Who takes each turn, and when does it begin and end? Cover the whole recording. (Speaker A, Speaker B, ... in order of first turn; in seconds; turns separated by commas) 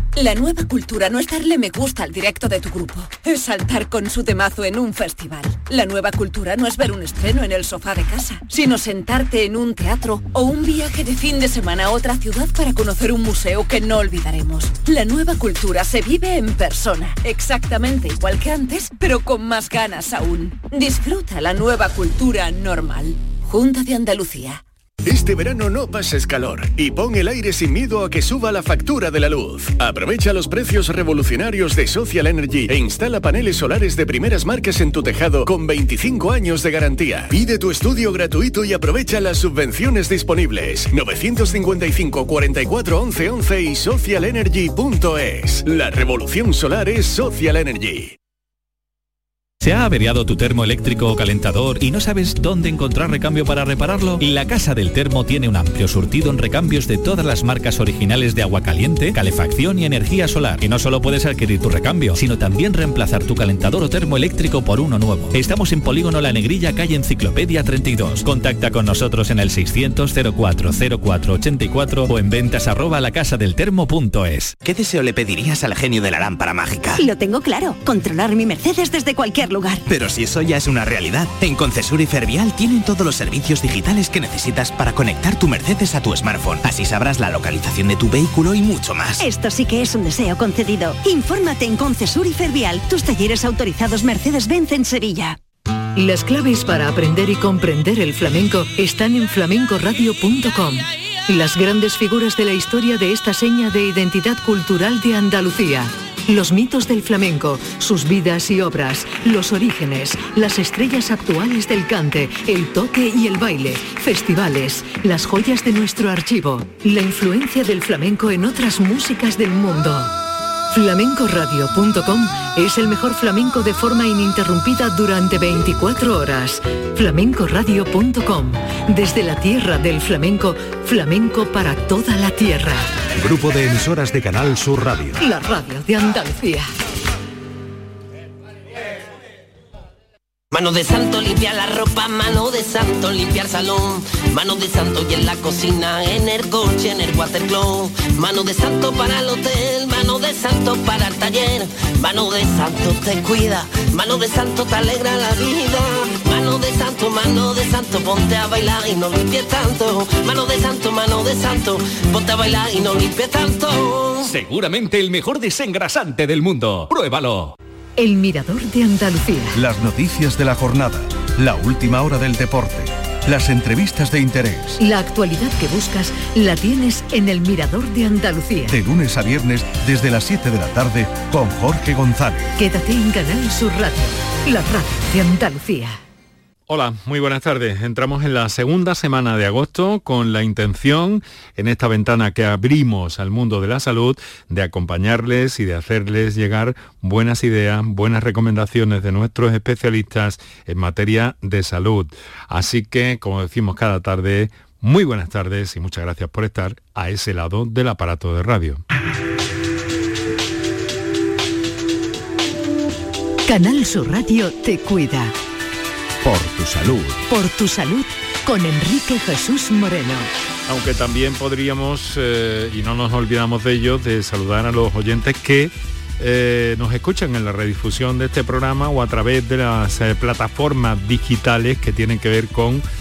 Speaker A: 0.1-24.6, Speaker B: 25.0-48.2, Speaker C: 49.6-74.6, Speaker D: 74.6-77.0, Speaker E: 77.0-79.8, Speaker D: 79.9-89.2, Speaker E: 89.2-95.4, Speaker F: 96.0-120.1, Speaker F: 120.7-132.9, Speaker G: 133.2-135.2, Speaker F: 135.2-136.7, Speaker H: 140.5-164.3, Speaker F: 168.0-169.6, Speaker G: 169.5-174.8, Speaker F: 174.8-178.8, Speaker G: 178.7-182.5, Speaker F: 182.6-186.0, Speaker I: 186.7-208.8, Speaker F: 213.5-215.3, Speaker F: 217.3-220.3, Speaker I: 220.7-232.8